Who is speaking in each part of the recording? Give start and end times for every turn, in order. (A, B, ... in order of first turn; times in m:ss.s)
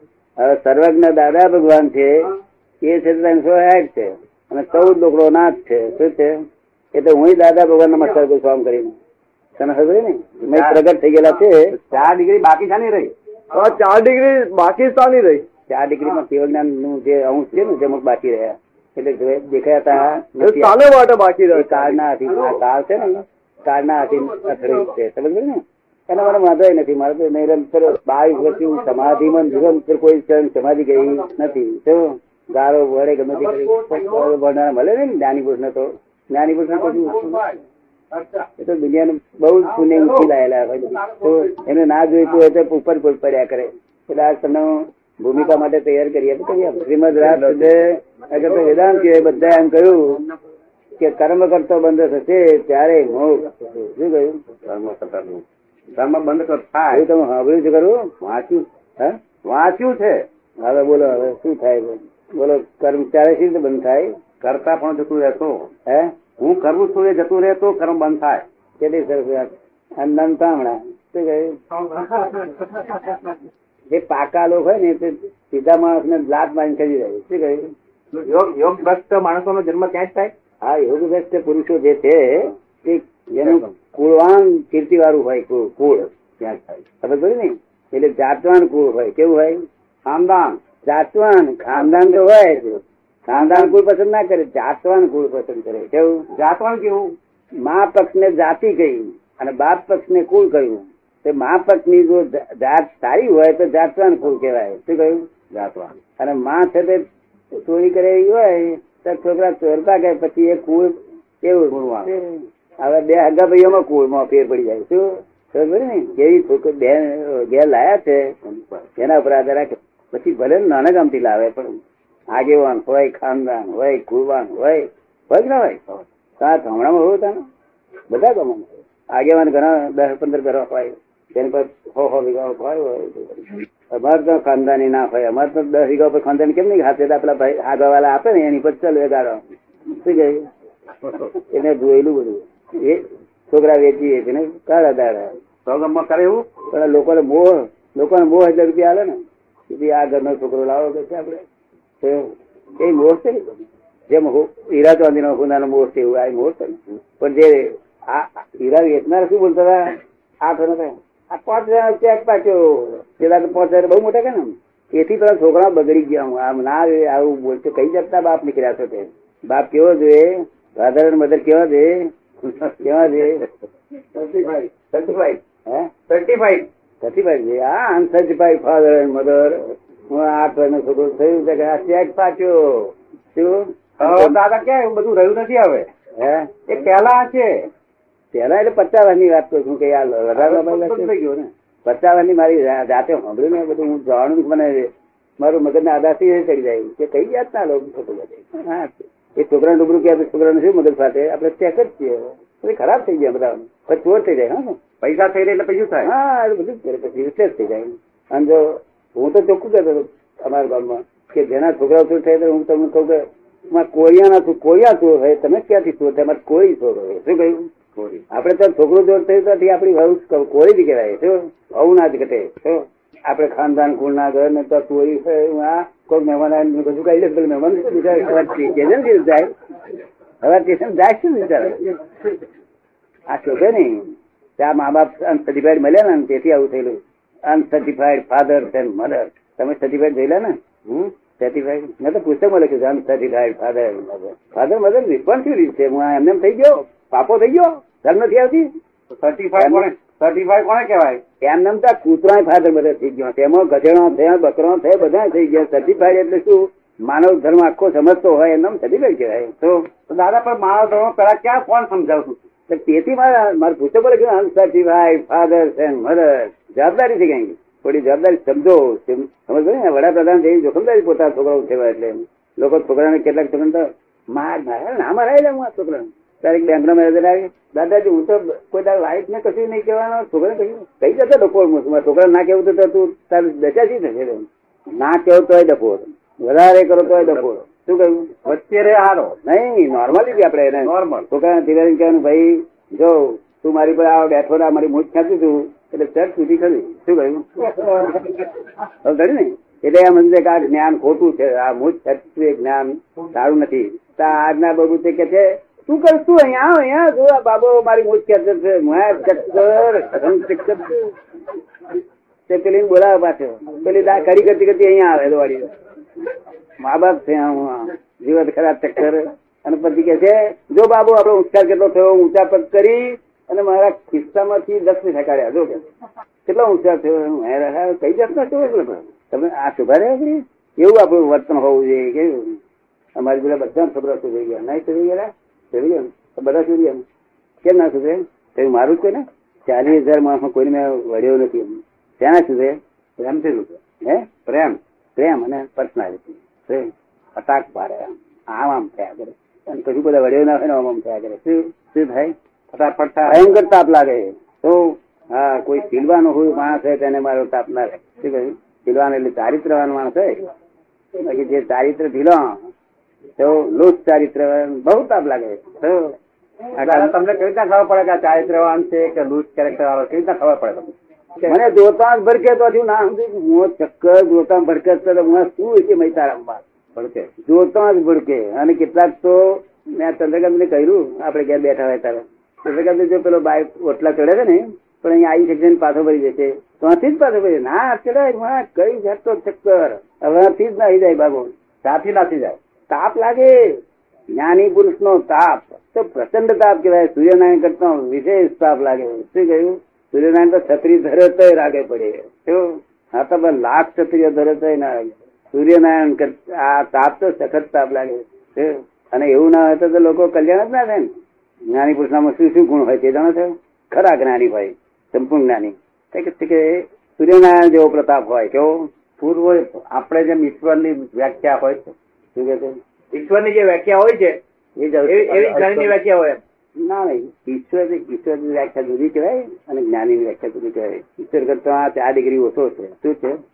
0:00.4-0:02.3 A
0:02.8-0:06.4 A
0:06.9-0:09.0 A
0:09.6-0:11.7 A
0:10.4-0:10.8 B
0:11.7-0:13.8 B
0:13.6-0:15.2 C
0:14.9-0:15.4 B
0:15.7-0:20.8 A
0:20.4-0:21.8 B
0:20.8-0:21.5 C
0:21.5-0:37.6 A
0:38.6-0:50.3 A
0:47.2-0:47.8 B
0:51.0-0:54.4 A
0:54.7-0:55.4 B
0:56.0-0:57.0 B
0:56.9-0:58.1 A
0:58.2-0:58.7 B
0:59.4-1:00.2 B
1:00.6-1:04.1 A
1:04.4-1:05.7 B
1:05.9-1:06.1 A
1:06.4-1:08.4 B
1:08.8-1:11.6 A
1:11.9-1:12.4 B
1:13.9-1:17.7 A
1:18.2-1:20.3 B
1:20.6-1:26.1 A
1:26.4-1:26.8 B
1:27.0-1:29.6 A
1:30.1-1:30.6 B
1:30.8-1:36.2 A
1:36.4-1:37.1 B
1:37.6-1:45.2 A
1:45.5-1:46.0 B
1:46.2-1:58.4 A
1:51.7-1:52.1 B
1:59.0-2:01.8 A
2:02.3-2:05.8 A
2:06.4-2:07.4 A
2:08.1-2:20.5 A
2:21.0-2:21.3 B
2:21.4-2:25.3 A
2:25.7-2:26.5 B
2:26.7-2:31.4 A
2:32.0-2:53.5 A
2:54.2-2:55.9 A
2:54.2-2:54.7 B
2:56.1-2:56.7 B
2:57.0-3:04.4 A
3:04.0-3:05.9 B
3:06.2-3:06.7 A
3:06.7-3:07.7 B
3:08.3-3:11.1 A
3:10.4-3:11.5 B
3:11.8-3:24.8 A
3:25.0-3:26.1 B
3:26.0-3:37.7 A
3:38.0-3:38.2 B
3:38.3-3:49.5 A
3:50.4-3:51.9 A
3:53.3-4:00.6 A
4:00.9-4:01.1 B
4:01.4-4:08.7 A
4:09.2-4:11.2 B
4:09.6-4:09.9 A
4:11.4-4:19.5 A
4:19.6-4:22.4 B
4:22.7-4:48.3 A
4:48.4-4:49.4 B
4:49.4-4:58.5 A
4:50.8-4:51.3 B
4:59.0-5:11.1 A
5:12.5-5:15.7 A
5:16.8-5:25.8 A
5:26.5-5:32.6 A
5:33.2-5:37.0 A
5:37.6-5:42.8 A
5:43.2-5:43.8 B
5:44.0-5:44.3 A
5:44.5-5:44.8 B
5:45.2-5:52.3 A
5:52.7-5:53.5 B
5:53.2-6:00.5 A
6:01.2-6:02.6 A
6:03.4-6:05.8 A
6:05.8-6:06.1 B
6:06.8-6:07.1 A
6:06.8-6:11.6 B
6:11.4-6:16.6 A
6:17.0-6:17.3 B
6:17.5-6:31.5 A
6:31.8-6:32.6 B
6:32.9-6:33.6 A
6:34.3-6:51.1 A
6:51.7-6:58.9 A
6:59.2-7:02.0 B
7:02.4-7:02.8 A
7:03.1-7:04.4 B
7:04.8-7:05.9 A
7:05.0-7:06.4 B
7:06.8-7:13.4 A